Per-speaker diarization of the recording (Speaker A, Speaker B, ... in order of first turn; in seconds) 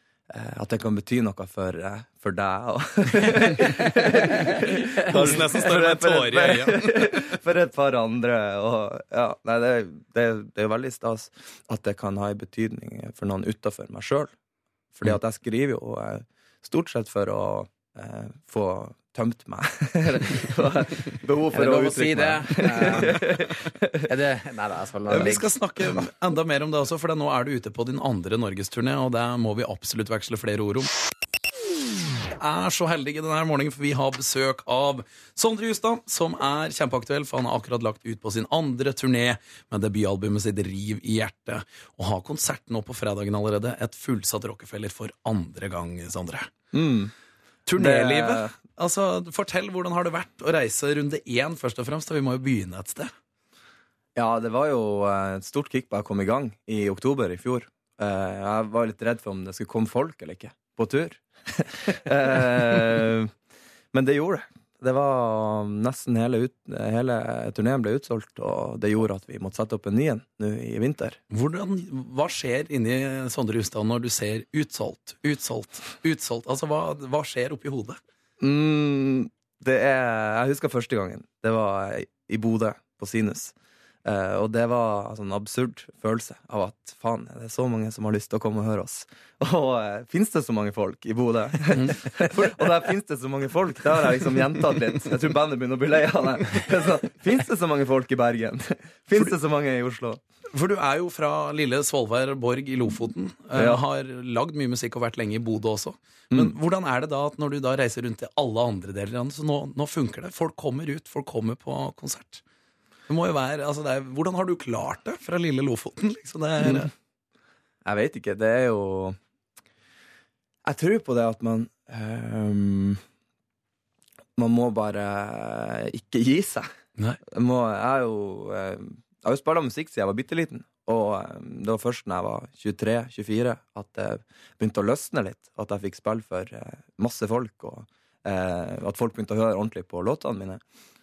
Speaker A: 0.3-14.3, 15.0-24.1, 46.7-47.1, 47.8-48.6, 54.2-63.3, 63.9-71.2, 78.4-83.5, 84.0-100.2, 103.5-103.8, 116.6-116.9, 117.8-119.2, 120.7-123.0, 124.4-126.7, 127.3-140.6
Speaker B: 5.0-7.2, 25.1-30.9, 32.4-46.5, 47.7-53.1, 71.3-78.0, 100.5-112.4, 113.1-116.9
Speaker C: 21.5-23.2, 24.1-25.5